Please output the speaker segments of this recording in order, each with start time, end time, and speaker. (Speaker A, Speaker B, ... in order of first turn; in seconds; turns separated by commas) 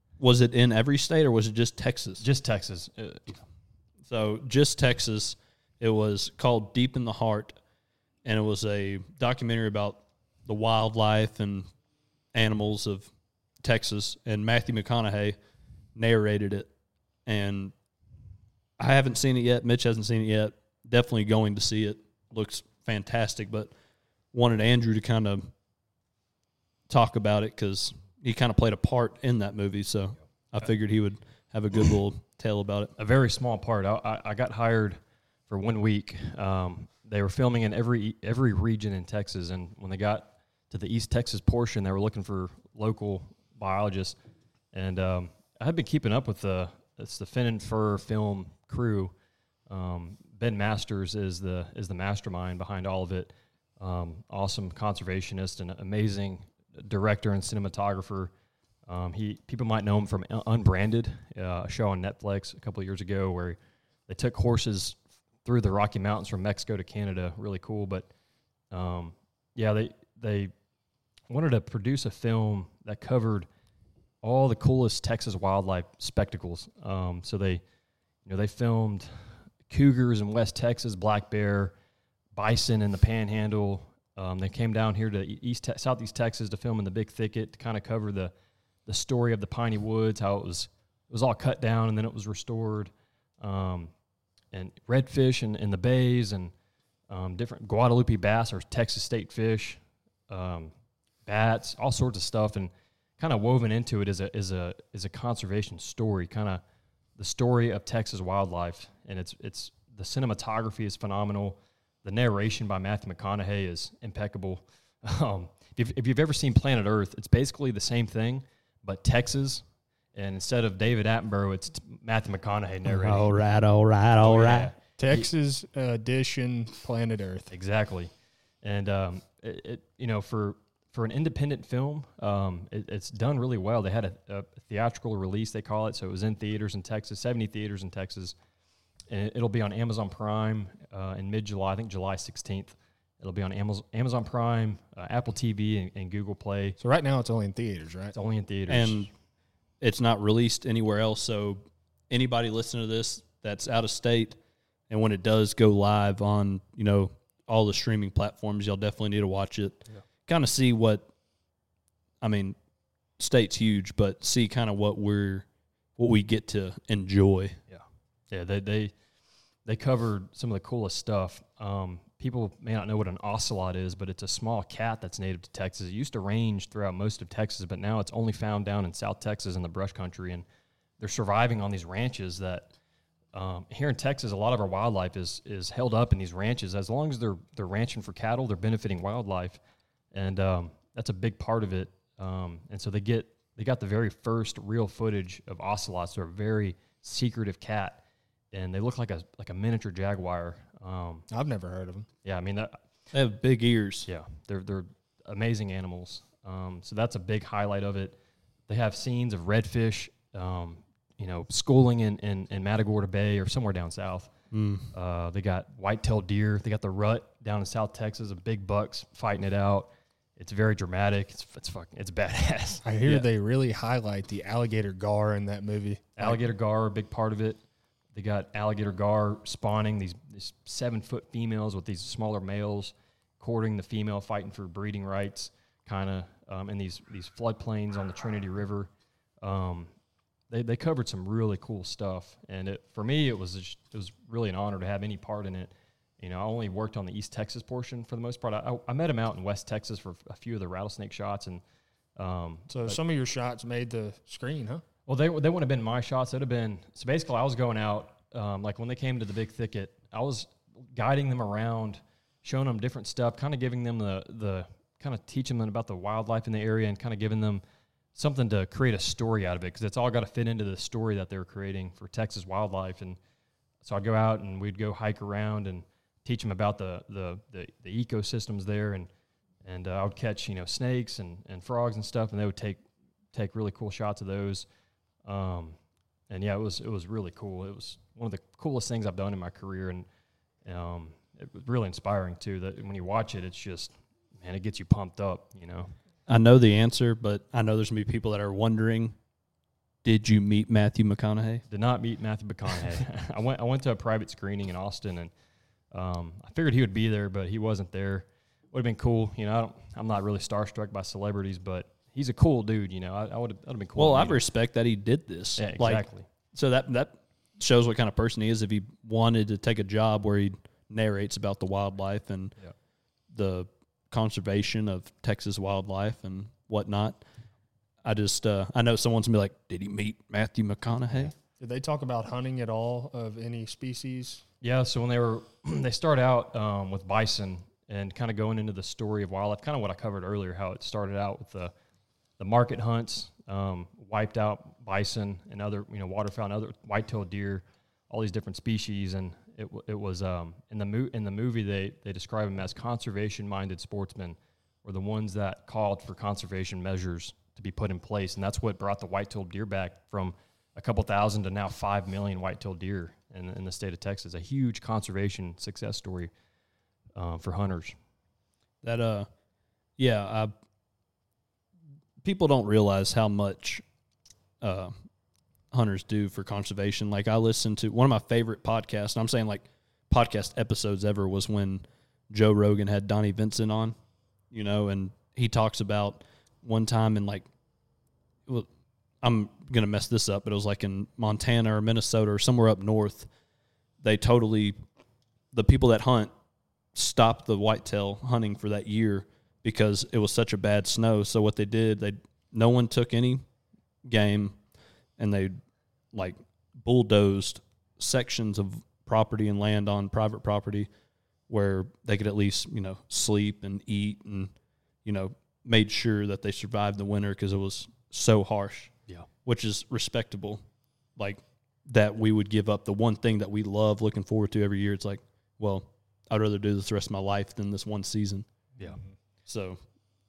Speaker A: 0.2-2.2, Speaker B: 2.2-3.4, Speaker A: 4.0-7.5, Speaker A: 8.2-11.7, Speaker A: 12.3-13.1, Speaker A: 13.6-15.3, Speaker A: 15.9-16.7, Speaker A: 17.2-17.7, Speaker A: 18.8-23.7, Speaker A: 24.3-25.5, Speaker A: 26.9-32.9, Speaker B: 33.0-44.2, Speaker B: 44.7-49.1, Speaker B: 49.7-58.3, Speaker B: 58.9-68.1, Speaker B: 68.7-70.5, Speaker B: 71.3-73.5, Speaker B: 74.2-77.6, Speaker B: 78.2-81.7, Speaker B: 82.3-88.3, Speaker B: 88.8-93.9, Speaker B: 94.5-96.5, Speaker B: 97.1-100.7, Speaker B: 101.2-106.6, Speaker B: 107.2-123.2, Speaker A: 122.8-124.7, Speaker B: 124.2-125.3, Speaker C: 125.0-127.5, Speaker B: 127.5-128.1, Speaker B: 128.6-138.3, Speaker B: 139.1-146.8, Speaker C: 146.8-148.2, Speaker B: 148.1-149.1, Speaker A: 148.7-149.1, Speaker A: 149.8-154.4, Speaker A: 154.9-161.1, Speaker A: 162.2-162.6, Speaker A: 163.2-165.4, Speaker A: 166.0-167.6, Speaker B: 167.7-168.9, Speaker B: 169.7-180.4, Speaker B: 181.0-182.7, Speaker B: 183.3-189.6, Speaker B: 190.1-201.3, Speaker C: 201.3-202.1, Speaker B: 202.2-202.8, Speaker A: 203.1-204.1, Speaker B: 204.1-208.2, Speaker B: 208.7-214.3, Speaker A: 214.5-214.9, Speaker B: 214.9-223.2, Speaker C: 222.8-226.4, Speaker B: 226.2-227.6, Speaker B: 228.1-238.9, Speaker B: 239.4-239.9, Speaker B: 240.5-251.6, Speaker B: 252.2-253.0, Speaker C: 252.7-254.8, Speaker B: 255.1-267.6, Speaker B: 268.1-273.2, Speaker B: 273.8-279.1, Speaker B: 279.6-282.8, Speaker B: 283.3-284.6, Speaker B: 285.2-285.8, Speaker B: 286.3-290.1, Speaker B: 290.6-295.9, Speaker A: 296.3-299.1, Speaker A: 300.0-301.6, Speaker B: 301.7-305.3, Speaker B: 305.9-314.4, Speaker A: 313.9-322.5, Speaker B: 315.6-316.3, Speaker A: 323.3-327.2, Speaker A: 328.0-331.3, Speaker C: 331.6-334.4, Speaker B: 334.6-341.7, Speaker B: 342.4-366.3, Speaker B: 367.1-367.9, Speaker A: 368.8-369.3, Speaker A: 370.0-370.5, Speaker A: 372.2-373.8, Speaker A: 374.6-374.9, Speaker A: 375.7-383.9, Speaker A: 384.5-387.5, Speaker A: 389.2-393.3, Speaker A: 394.0-394.8, Speaker A: 395.5-396.3, Speaker A: 396.9-403.4, Speaker A: 404.0-404.6, Speaker A: 405.2-405.6, Speaker A: 406.1-410.9, Speaker A: 411.5-414.5, Speaker A: 415.0-418.9, Speaker A: 419.4-420.6, Speaker A: 421.2-428.5, Speaker C: 428.8-429.1, Speaker A: 429.4-429.8